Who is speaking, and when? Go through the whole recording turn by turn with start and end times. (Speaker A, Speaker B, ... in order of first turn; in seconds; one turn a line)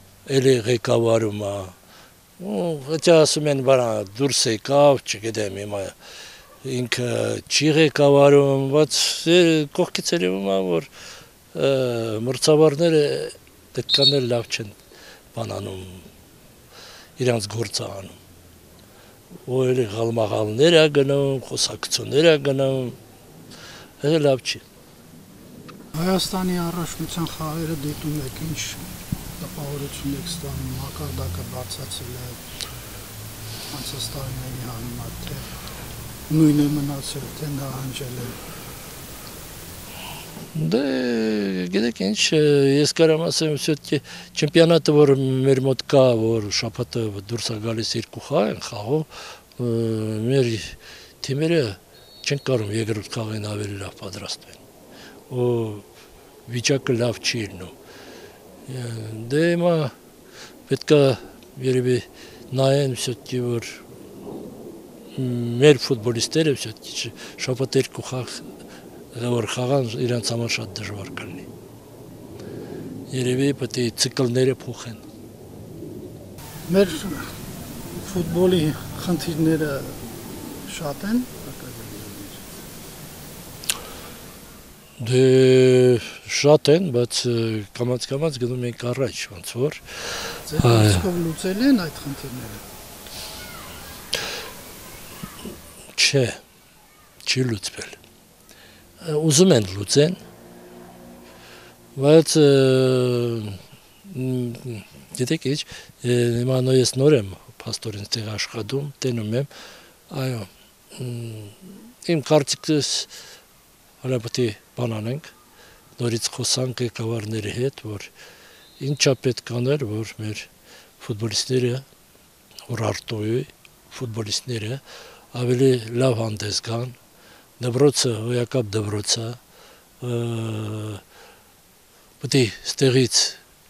Speaker A: 0.2-1.8
Speaker A: 2.4-5.9
Speaker A: 6.6-10.9
Speaker A: 11.5-14.8
Speaker A: 15.3-16.1
Speaker A: 17.2-18.2
Speaker A: 19.5-23.0
Speaker A: 24.0-24.6
Speaker B: 25.9-28.9
Speaker B: 29.4-32.4
Speaker B: 33.7-35.5
Speaker B: 36.3-38.4
Speaker A: 40.5-54.6
Speaker A: 55.3-55.9
Speaker A: 56.5-57.7
Speaker A: 58.7-59.9
Speaker A: 60.7-63.8
Speaker A: 65.2-68.5
Speaker A: 69.1-71.5
Speaker A: 73.1-75.0
Speaker B: 76.7-77.2
Speaker B: 78.0-80.1
Speaker B: 80.6-82.5
Speaker A: 85.0-91.0
Speaker B: 90.5-92.6
Speaker A: 95.9-96.4
Speaker A: 97.2-98.0
Speaker A: 99.0-100.2
Speaker A: 102.0-109.5
Speaker A: 110.1-113.1
Speaker A: 114.0-115.3
Speaker A: 116.0-118.1
Speaker A: 118.8-121.8
Speaker A: 122.7-124.8
Speaker A: 125.3-127.0
Speaker A: 127.6-129.4
Speaker A: 130.0-131.0
Speaker A: 132.2-133.4